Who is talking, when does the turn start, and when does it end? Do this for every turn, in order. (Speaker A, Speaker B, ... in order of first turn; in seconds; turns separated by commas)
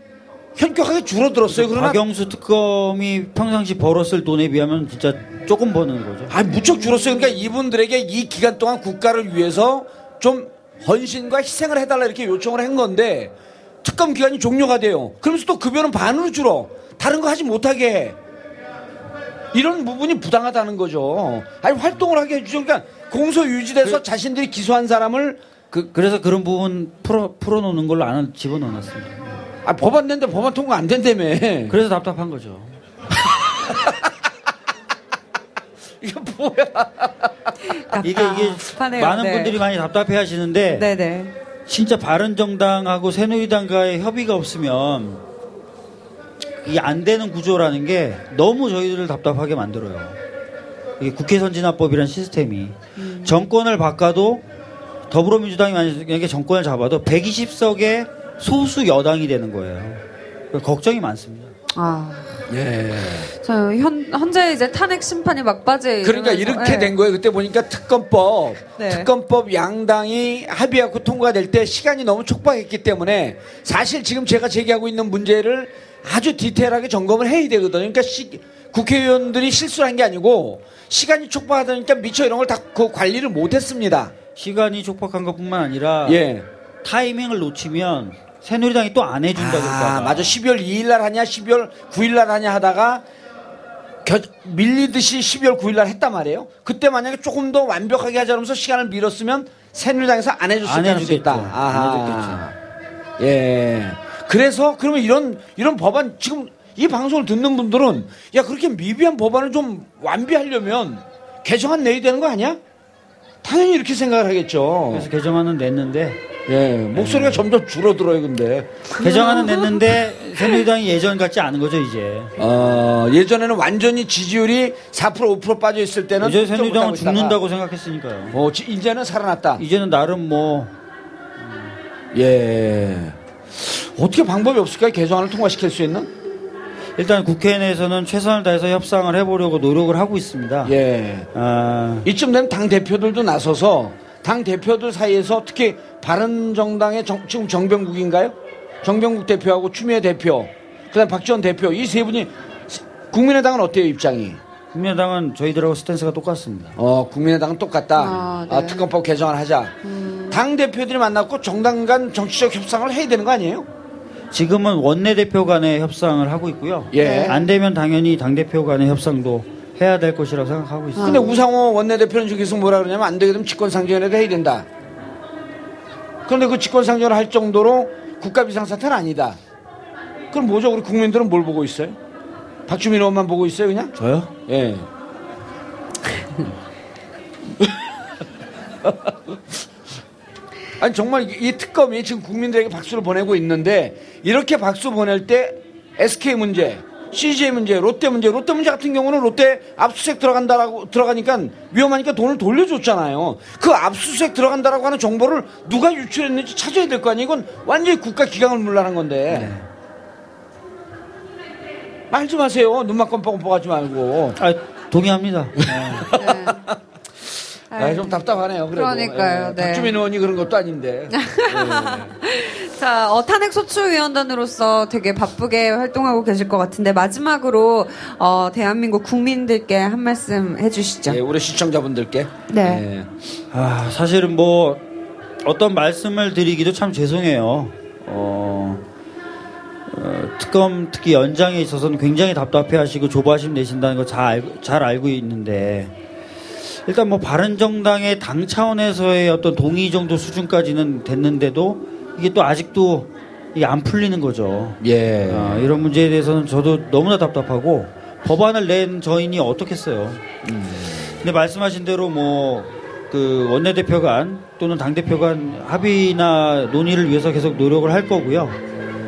Speaker A: 0.6-2.0, Speaker B: 1.5-6.3, Speaker A: 6.3-18.2, Speaker C: 6.5-7.4, Speaker A: 19.5-25.9, Speaker B: 25.9-29.4, Speaker A: 29.6-31.8, Speaker B: 31.7-32.8, Speaker A: 36.0-37.5, Speaker C: 37.7-39.6, Speaker B: 38.0-40.9, Speaker C: 40.7-41.3, Speaker B: 41.7-45.2, Speaker B: 46.6-50.2, Speaker B: 51.0-54.4, Speaker C: 53.0-53.4, Speaker B: 55.1-61.5, Speaker C: 61.7-62.4, Speaker A: 62.5-63.3, Speaker C: 63.4-66.9, Speaker A: 66.0-84.1, Speaker C: 68.8-69.1, Speaker B: 84.3-86.2, Speaker A: 86.0-86.4, Speaker B: 86.8-90.4, Speaker A: 89.3-93.0, Speaker A: 94.0-102.5, Speaker B: 100.6-102.4, Speaker A: 103.2-112.6, Speaker A: 113.4-115.1, Speaker B: 114.9-116.2, Speaker A: 116.5-118.9, Speaker B: 116.9-117.4, Speaker C: 119.0-119.9, Speaker B: 119.0-122.5, Speaker A: 122.4-127.4, Speaker B: 126.2-128.4, Speaker A: 128.3-129.6, Speaker B: 129.6-130.7, Speaker B: 131.4-131.7, Speaker A: 132.1-136.1, Speaker B: 137.0-140.7, Speaker A: 140.6-141.3, Speaker B: 141.3-142.1, Speaker A: 142.0-154.4, Speaker B: 154.7-156.8, Speaker A: 156.8-159.7, Speaker C: 158.0-158.9, Speaker C: 159.8-160.4, Speaker A: 160.3-163.7, Speaker B: 164.3-171.2, Speaker A: 166.9-167.4, Speaker C: 166.9-167.4, Speaker C: 171.0-171.4, Speaker A: 171.0-174.7, Speaker A: 176.3-179.4, Speaker A: 180.3-182.0, Speaker A: 182.7-184.9, Speaker B: 184.0-184.3, Speaker A: 188.8-189.1, Speaker A: 190.8-209.5, Speaker B: 209.3-209.7, Speaker A: 212.1-214.4, Speaker B: 214.3-216.2, Speaker A: 215.7-216.8, Speaker C: 216.1-216.7, Speaker C: 217.7-219.9, Speaker A: 217.8-222.1, Speaker C: 221.2-231.2, Speaker A: 231.1-233.1, Speaker C: 232.5-232.8, Speaker B: 233.5-234.8, Speaker B: 235.4-238.8, Speaker B: 239.9-245.9, Speaker B: 246.8-260.2, Speaker A: 254.8-255.7, Speaker A: 260.4-261.2, Speaker B: 261.2-268.6